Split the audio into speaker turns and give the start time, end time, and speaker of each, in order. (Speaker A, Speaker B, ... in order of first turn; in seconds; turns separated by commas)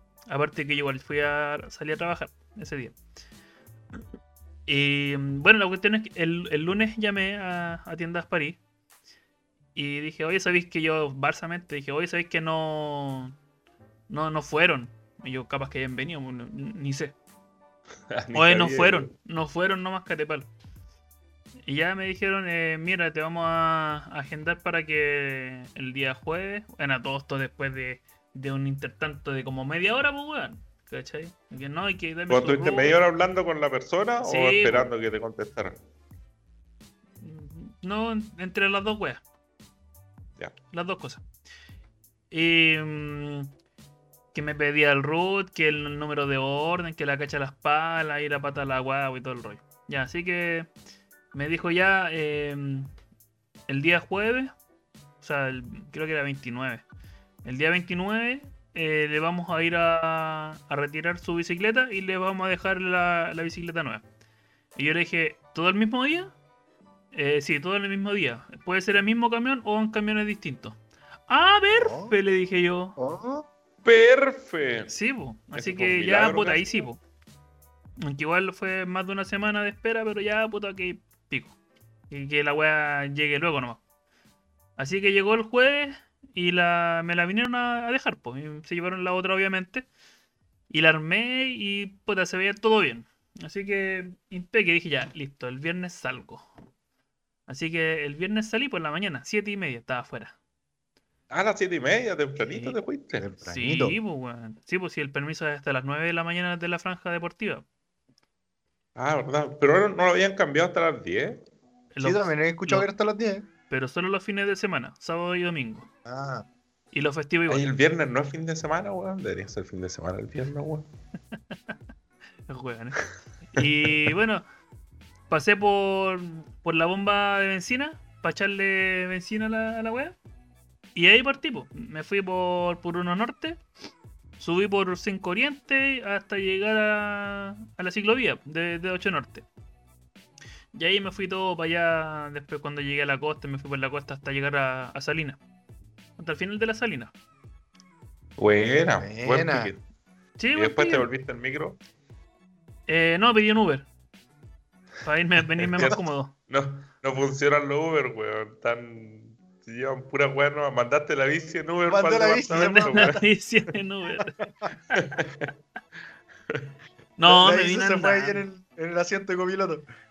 Speaker A: 0.3-3.0, Speaker A: 4.7-8.6, Speaker A: 9.8-13.3, Speaker A: 14.1-17.2, Speaker B: 18.1-19.1, Speaker A: 18.3-20.5, Speaker A: 21.6-33.0, Speaker B: 32.3-35.8, Speaker A: 34.2-34.9, Speaker A: 37.2-39.2, Speaker A: 40.7-41.2, Speaker A: 42.3-43.5, Speaker A: 44.3-50.7, Speaker A: 51.3-52.9, Speaker A: 53.7-54.5, Speaker A: 55.2-56.8, Speaker A: 57.5-64.0, Speaker A: 64.8-66.3, Speaker A: 67.1-70.8, Speaker A: 71.3-73.0, Speaker C: 71.7-72.2, Speaker C: 73.0-73.5, Speaker B: 73.8-74.9, Speaker A: 74.9-77.0, Speaker B: 75.5-76.7, Speaker A: 78.0-81.6, Speaker A: 82.1-83.8, Speaker A: 84.8-89.9, Speaker A: 90.7-96.5, Speaker A: 97.5-100.4, Speaker B: 101.3-103.3, Speaker A: 102.5-102.8, Speaker C: 103.2-104.0, Speaker A: 103.5-107.7, Speaker B: 109.0-111.4, Speaker A: 111.9-112.9, Speaker C: 112.0-113.5, Speaker A: 113.7-115.9, Speaker C: 116.1-116.5, Speaker A: 116.9-117.6, Speaker B: 117.5-120.9, Speaker A: 122.5-124.5, Speaker A: 125.3-130.2, Speaker A: 130.9-133.6, Speaker A: 134.4-139.5, Speaker A: 140.7-145.4, Speaker A: 146.2-147.1, Speaker B: 148.4-149.8, Speaker C: 149.0-149.7, Speaker A: 150.4-151.1, Speaker B: 150.5-151.8, Speaker A: 152.9-153.9, Speaker A: 155.0-156.3, Speaker B: 155.8-163.2, Speaker C: 161.9-163.2, Speaker A: 162.5-164.3, Speaker C: 164.4-164.7, Speaker B: 164.9-165.5, Speaker A: 167.2-168.4, Speaker C: 167.2-169.9